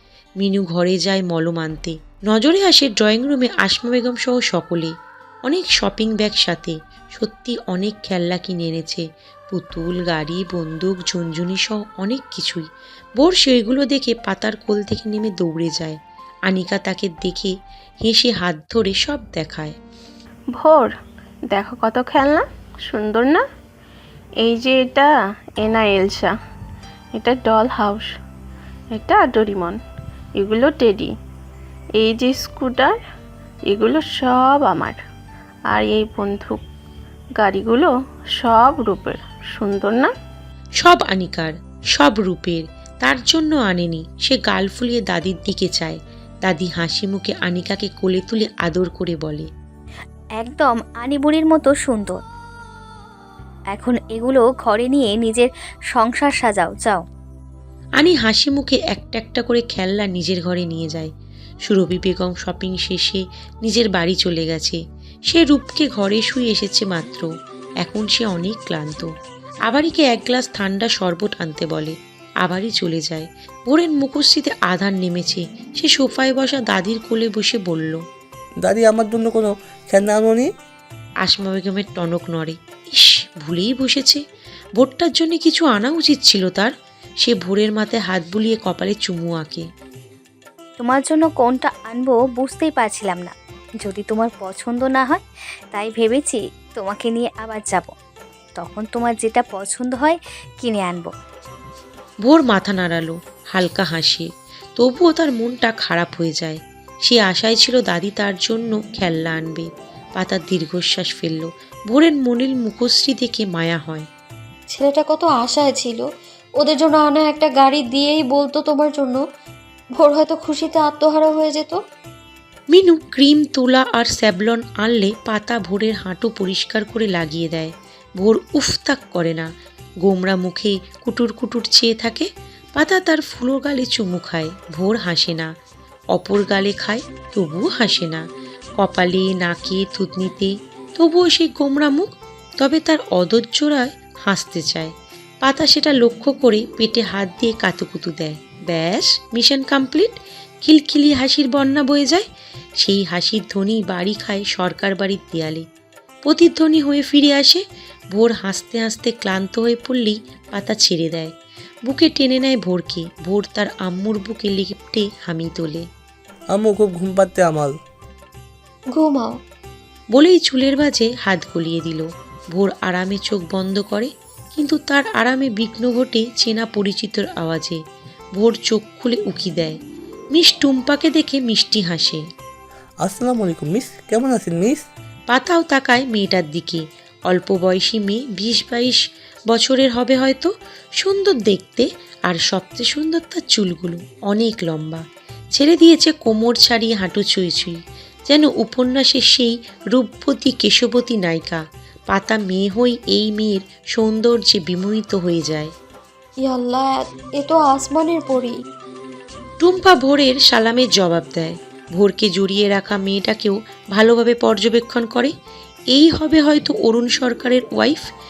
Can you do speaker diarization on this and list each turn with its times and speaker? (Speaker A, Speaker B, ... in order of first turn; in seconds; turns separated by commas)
Speaker A: 0.4-19.8, Speaker B: 20.6-20.9, Speaker B: 21.5-23.4, Speaker B: 24.4-26.3, Speaker B: 27.2-28.1, Speaker B: 28.9-29.8, Speaker B: 30.4-31.1, Speaker B: 32.0-33.0, Speaker B: 33.7-35.0, Speaker B: 35.7-36.6, Speaker B: 37.4-40.1, Speaker A: 40.8-49.5, Speaker C: 50.4-52.2, Speaker C: 53.7-57.0, Speaker A: 58.0-61.1, Speaker A: 61.7-67.3, Speaker A: 67.8-69.1, Speaker A: 69.7-78.0, Speaker D: 78.6-80.5, Speaker A: 81.2-84.2, Speaker A: 84.8-89.7, Speaker C: 90.8-97.9, Speaker C: 98.6-101.1, Speaker A: 102.2-114.1, Speaker E: 114.7-116.0, Speaker E: 116.6-119.2, Speaker E: 120.0-121.8, Speaker A: 122.7-129.5, Speaker A: 130.0-135.5, Speaker A: 136.1-138.3, Speaker A: 138.8-152.3, Speaker A: 152.8-155.7, Speaker A: 156.2-161.3, Speaker A: 161.9-165.9, Speaker D: 166.5-167.8, Speaker E: 168.9-169.4, Speaker A: 170.1-177.8, Speaker A: 178.4-179.8, Speaker A: 180.3-182.2, Speaker D: 183.0-184.8, Speaker A: 185.3-205.7, Speaker E: 206.4-208.6, Speaker A: 209.6-215.3, Speaker A: 215.9-218.0